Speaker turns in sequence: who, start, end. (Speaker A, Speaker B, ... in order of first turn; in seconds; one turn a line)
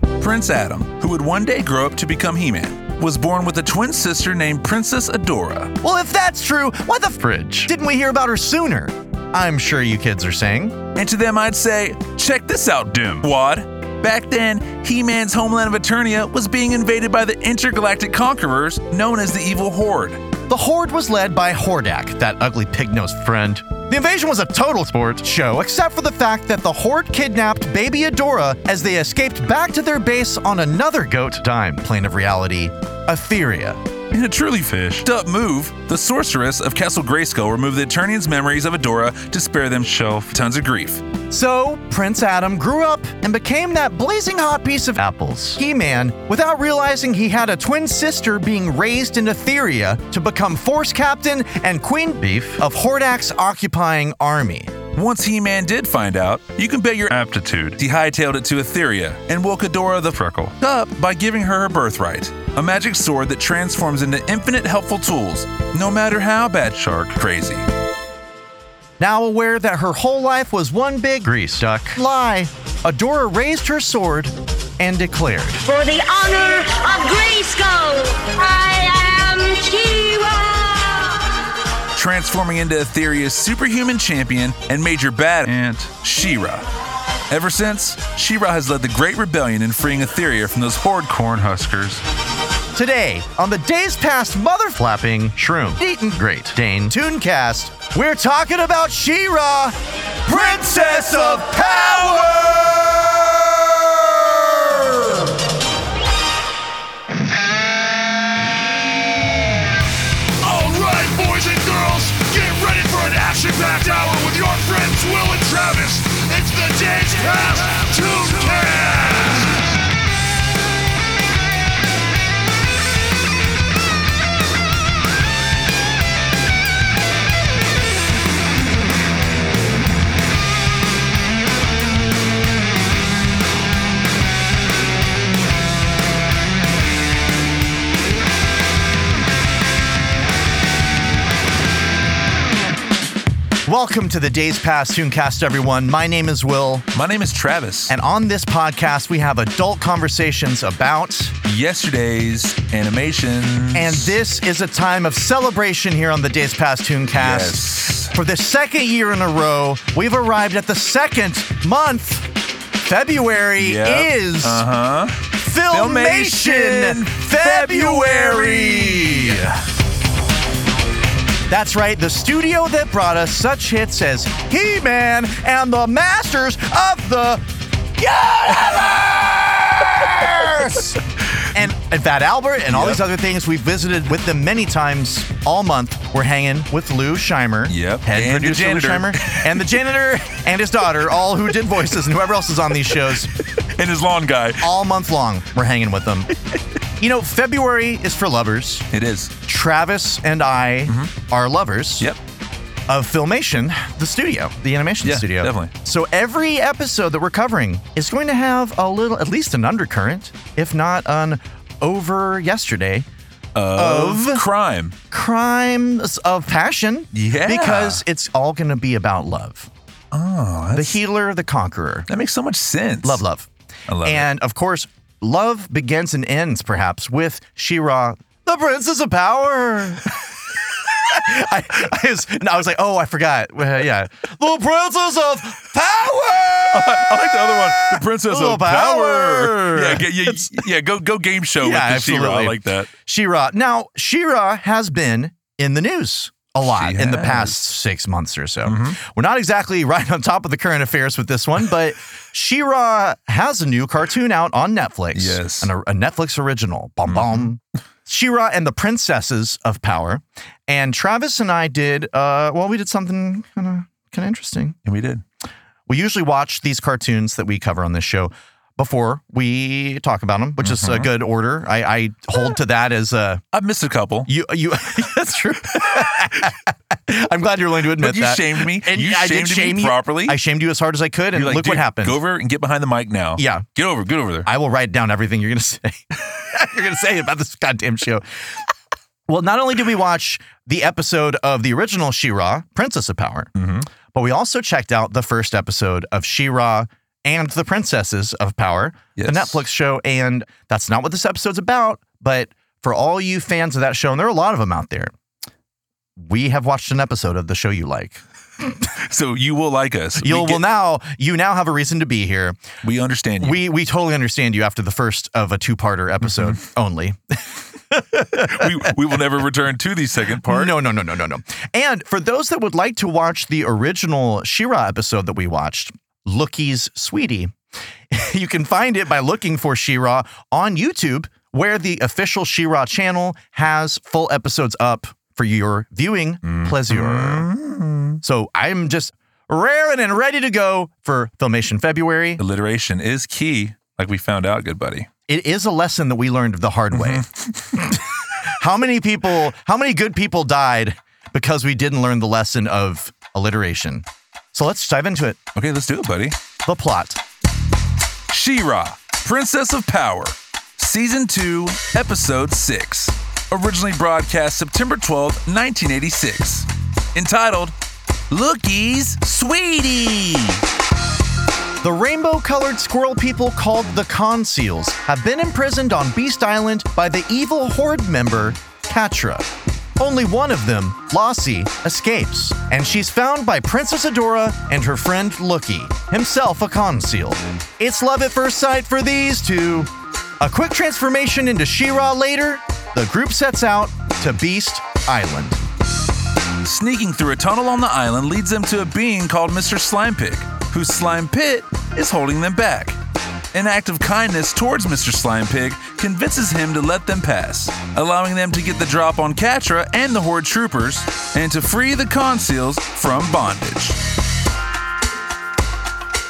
Speaker A: 0.2-5.7
Speaker B: 5.8-10.8
Speaker A: 10.9-20.2
Speaker B: 20.5-33.8
Speaker A: 34.1-41.0
Speaker B: 41.3-54.7
Speaker A: 54.9-67.7
Speaker B: 69.0-75.7
Speaker C: 75.7-81.1
Speaker A: 82.0-86.7
Speaker A: 87.3-92.0
Speaker B: 92.7-103.4
Speaker B: 104.4-104.8
Speaker D: 110.4-119.6
Speaker B: 143.7-146.9
Speaker A: 146.9-147.9
Speaker B: 147.9-151.3
Speaker A: 151.4-154.1
Speaker B: 153.7-164.7
Speaker A: 157.2-158.1
Speaker A: 163.6-169.5
Speaker B: 165.3-169.6
Speaker B: 171.5-177.4
Speaker B: 178.0-181.0
Speaker B: 181.5-193.3
Speaker A: 182.7-183.0
Speaker A: 187.7-189.7
Speaker A: 193.7-194.7
Speaker B: 194.6-196.3
Speaker B: 197.0-198.9
Speaker A: 198.9-199.3
Speaker B: 199.4-202.1
Speaker A: 200.9-201.1
Speaker B: 202.9-213.1
Speaker A: 205.0-205.7
Speaker A: 213.6-215.0
Speaker B: 213.8-214.4
Speaker B: 215.1-219.7
Speaker A: 217.1-218.0
Speaker A: 220.1-221.0
Speaker B: 220.7-222.1
Speaker A: 222.1-223.2
Speaker B: 223.0-223.5
Speaker A: 223.9-224.3
Speaker B: 224.0-230.2
Speaker B: 231.0-240.7
Speaker A: 236.6-242.9
Speaker B: 241.6-264.8
Speaker A: 246.6-247.6
Speaker A: 248.7-249.0
Speaker A: 255.1-255.7
Speaker A: 257.1-257.5
Speaker A: 264.9-265.2
Speaker B: 265.9-273.4
Speaker A: 270.6-271.1
Speaker A: 273.5-274.3
Speaker B: 274.3-282.2
Speaker A: 278.0-280.4
Speaker A: 281.4-284.5
Speaker B: 283.4-283.7
Speaker B: 284.4-288.2
Speaker B: 289.3-293.5
Speaker A: 293.6-293.9
Speaker B: 294.1-305.1
Speaker A: 299.2-299.6
Speaker B: 306.2-308.8
Speaker A: 309.0-310.7
Speaker B: 310.2-312.6
Speaker A: 312.8-313.6
Speaker B: 313.4-318.9
Speaker A: 316.3-316.6
Speaker A: 318.5-320.8
Speaker B: 320.4-327.6
Speaker B: 328.1-337.5
Speaker A: 336.5-338.2
Speaker B: 338.2-342.4
Speaker A: 342.4-345.1
Speaker B: 345.3-348.0
Speaker A: 346.9-347.2
Speaker B: 348.6-355.4
Speaker A: 355.6-356.4
Speaker B: 356.6-357.2
Speaker A: 358.3-367.8
Speaker A: 368.3-370.6
Speaker B: 371.8-379.5
Speaker B: 380.0-389.9
Speaker B: 390.4-395.6
Speaker A: 396.6-403.0
Speaker A: 403.5-414.0